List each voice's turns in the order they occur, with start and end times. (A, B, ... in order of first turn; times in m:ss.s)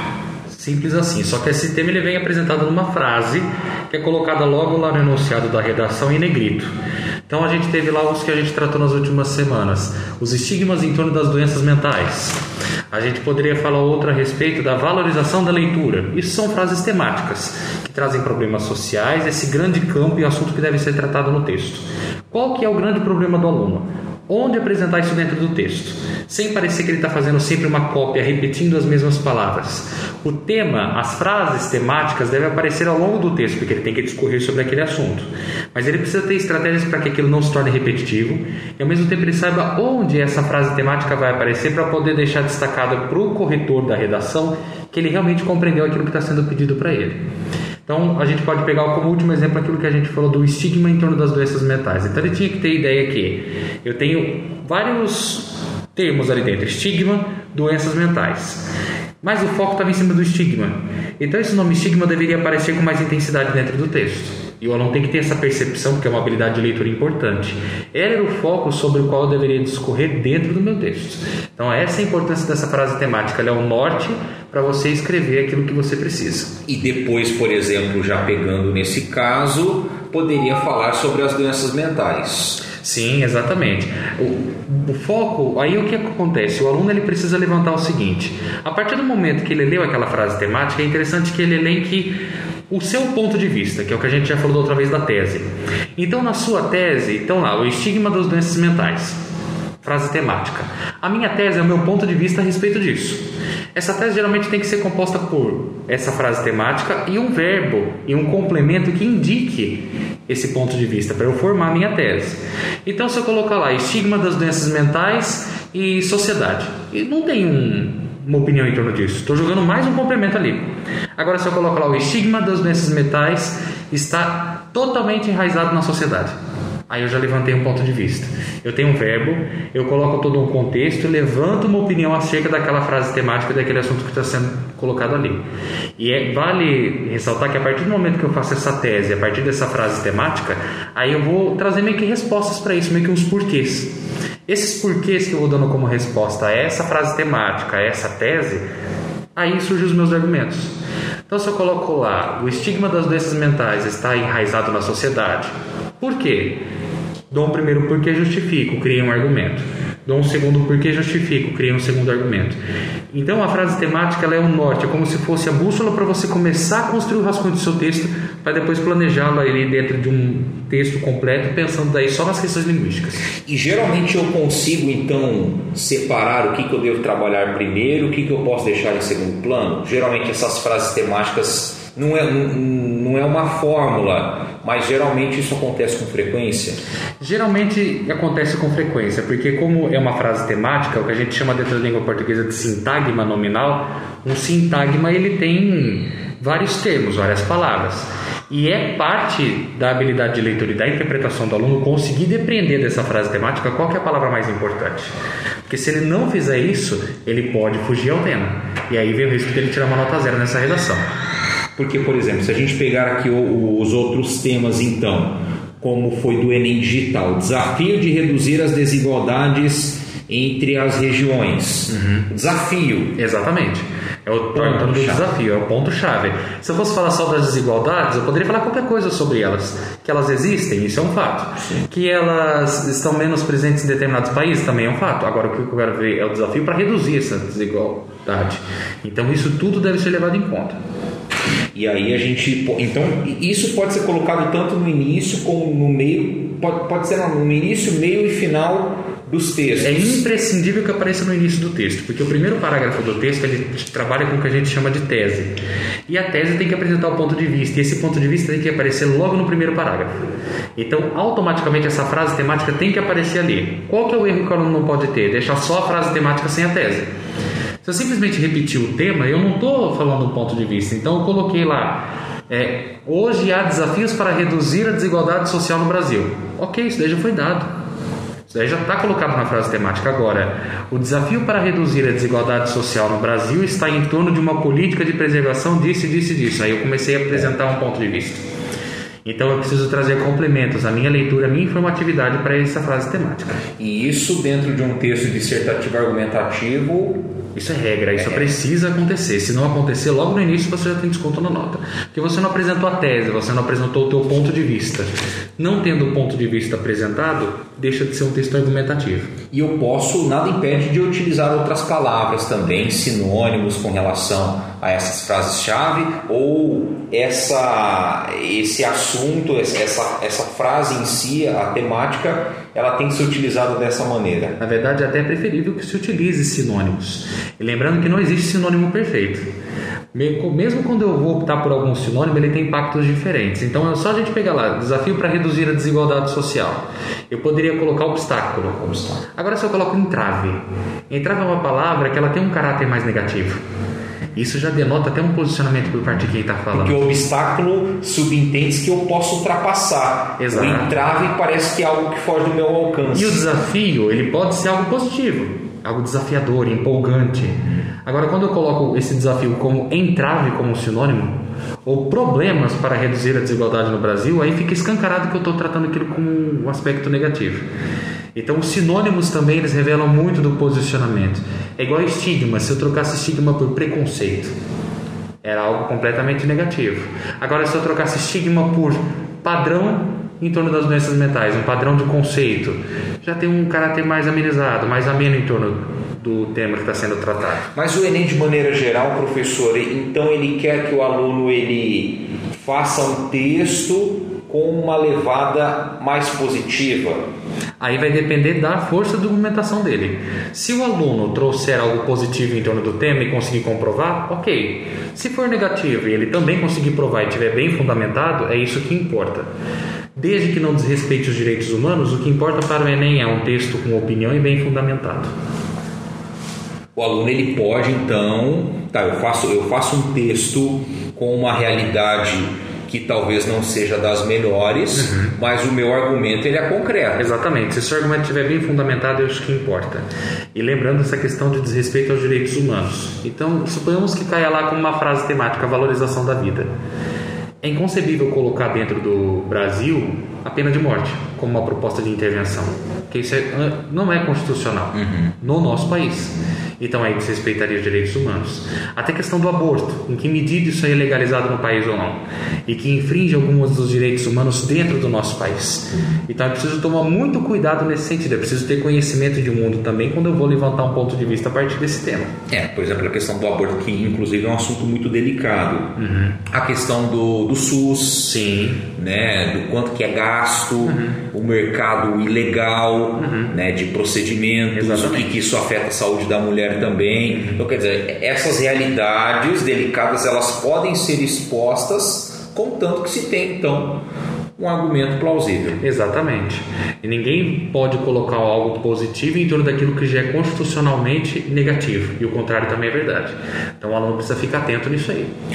0:00.5-0:06.7 A
0:07.3-0:47.2 A
0:47.8-0:58.7 A
0:59.2-1:16.5 A
1:16.6-1:22.6 B
1:22.8-1:39.2 A
1:39.8-1:43.2 A
1:43.7-2:06.4 A
2:06.9-2:15.4 A
2:16.0-2:23.9 A
2:24.5-2:28.6 A
2:29.4-2:30.7 A
2:31.3-2:36.6 A
2:37.3-2:42.6 A
2:43.1-2:53.2 A
2:53.4-3:06.8 B
3:07.2-3:25.1 A
3:25.7-3:31.1 A
3:31.8-3:43.2 B
3:41.9-3:42.2 A
3:43.2-4:00.8 A
3:44.5-3:45.2 B
4:01.7-4:10.2 B
4:09.8-4:15.6 A
4:16.1-4:27.1 A
4:27.8-4:37.7 A
4:38.5-4:48.4 A
4:49.2-4:53.6 A
4:53.8-4:57.2 B
4:57.5-5:09.3 A
4:58.2-4:58.5 B
5:09.5-5:24.6 B
5:24.6-5:29.5 A
5:30.1-5:43.6 A
5:44.3-5:47.1 A
5:46.7-5:53.5 B
5:50.4-5:51.0 A
5:53.1-6:07.6 A
6:08.3-6:14.5 A
6:15.4-6:27.7 A
6:27.7-6:37.2 B
6:37.8-6:49.5 A
6:50.1-6:55.3 A
6:57.0-7:07.2 B
7:04.9-7:05.3 A
7:07.2-7:16.7 A
7:17.6-7:42.3 A
7:25.0-7:25.3 B
7:42.5-7:48.4 B
7:46.0-7:46.4 A
7:48.2-7:48.8 A
7:48.9-8:04.0 B
7:50.8-7:51.2 A
7:53.2-7:53.5 A
7:54.7-7:55.3 A
7:57.3-7:57.6 A
8:04.6-8:05.8 B
8:05.8-8:15.3 A